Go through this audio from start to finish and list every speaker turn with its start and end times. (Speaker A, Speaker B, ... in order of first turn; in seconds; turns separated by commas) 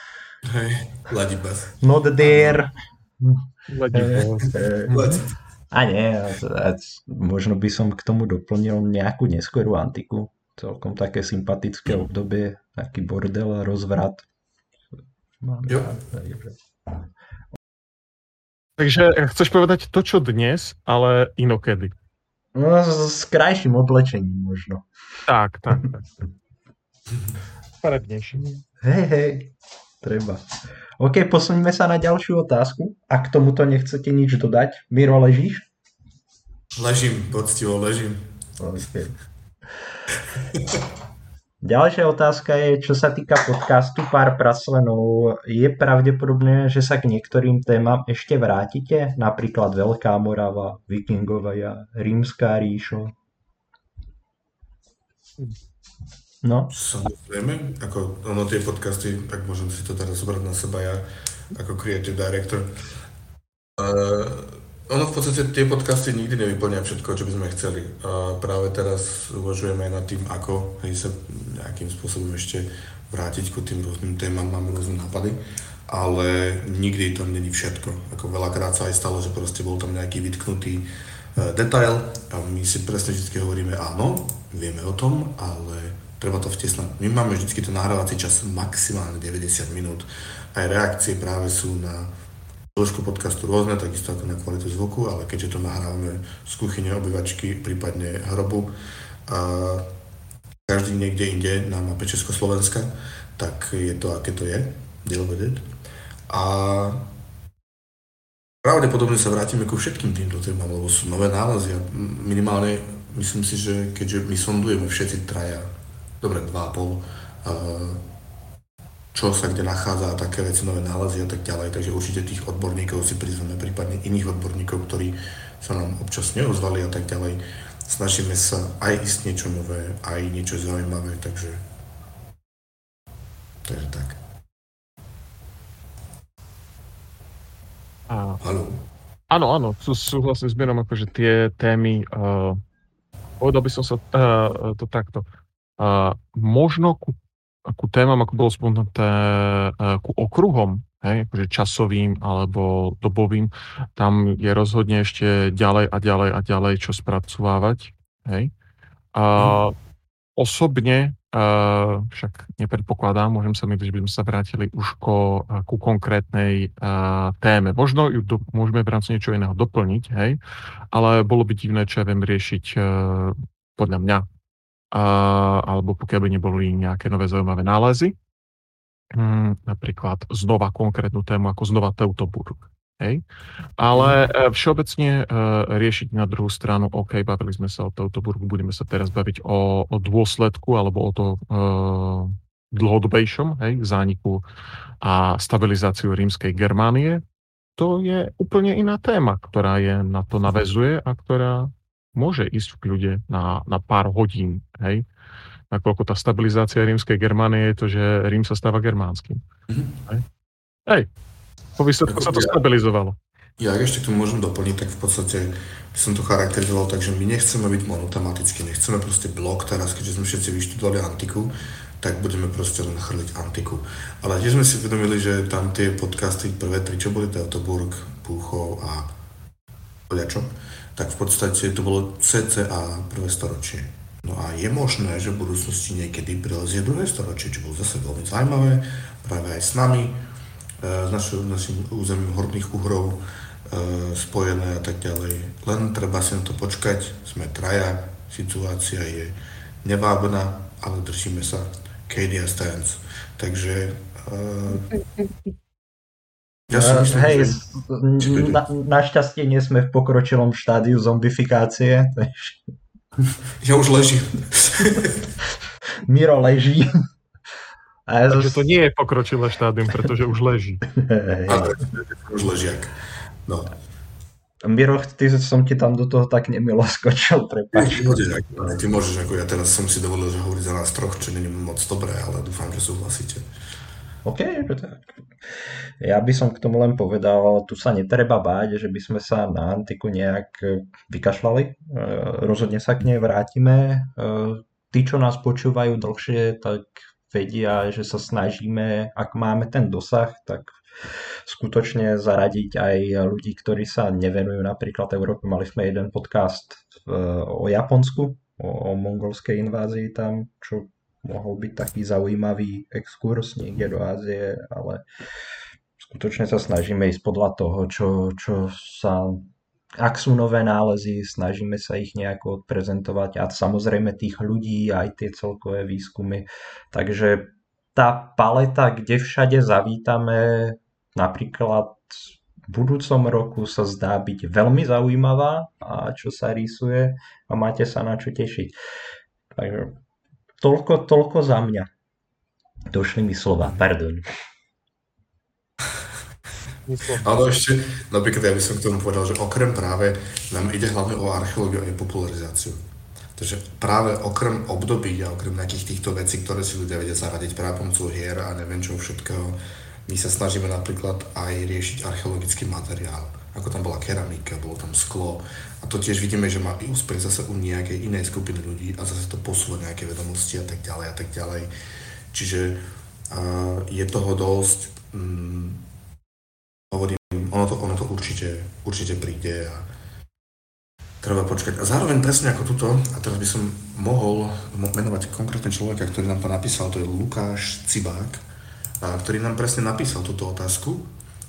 Speaker A: 0.4-2.6, Speaker B: 1.8-5.0, Speaker C: 3.7-5.2, Speaker A: 4.9-5.3, Speaker B: 5.7-14.2, Speaker B: 15.4-16.5, Speaker C: 18.8-21.9, Speaker B: 22.5-24.8, Speaker C: 25.3-26.1, Speaker C: 27.8-28.6, Speaker B: 28.8-30.4, Speaker B: 31.0-35.6, Speaker A: 36.8-38.3, Speaker B: 38.6-39.1, Speaker A: 40.4-40.8, Speaker B: 41.6-53.1, Speaker B: 56.4-56.7, Speaker A: 56.7-62.7, Speaker A: 63.8-92.1, Speaker A: 92.7-98.7, Speaker A: 99.3-99.9, Speaker A: 100.6-105.7, Speaker A: 106.3-107.1, Speaker A: 108.6-115.7, Speaker A: 116.2-118.0, Speaker A: 119.1-131.6, Speaker A: 133.6-134.2, Speaker C: 138.1-138.4, Speaker A: 138.4-138.8, Speaker C: 139.3-142.6, Speaker C: 143.4-145.2, Speaker C: 145.8-158.5, Speaker C: 159.1-159.7, Speaker C: 160.4-170.4, Speaker C: 170.9-174.2, Speaker C: 174.9-178.1, Speaker C: 179.1-183.2, Speaker C: 183.8-194.4, Speaker C: 195.0-197.2, Speaker C: 197.8-205.0, Speaker C: 205.7-209.4, Speaker A: 209.7-209.9, Speaker C: 211.8-213.2, Speaker A: 212.1-212.6, Speaker A: 213.6-229.1, Speaker A: 230.1-240.2, Speaker A: 240.8-254.9, Speaker A: 256.7-257.6, Speaker B: 256.7-262.6, Speaker A: 258.2-258.6, Speaker A: 263.6-265.2, Speaker B: 266.0-267.0, Speaker B: 268.1-268.6, Speaker C: 268.3-270.8, Speaker B: 270.9-271.8, Speaker A: 271.5-272.9, Speaker A: 273.4-273.7, Speaker B: 274.6-278.2, Speaker A: 277.7-283.4, Speaker B: 284.2-285.2, Speaker B: 286.0-315.0, Speaker B: 316.0-338.8, Speaker B: 339.5-340.0, Speaker B: 340.6-341.9, Speaker B: 342.9-344.3, Speaker C: 346.9-347.3, Speaker A: 347.1-352.8, Speaker A: 353.4-371.7, Speaker A: 372.3-375.8, Speaker A: 376.9-379.9, Speaker A: 381.2-388.4, Speaker A: 389.0-391.1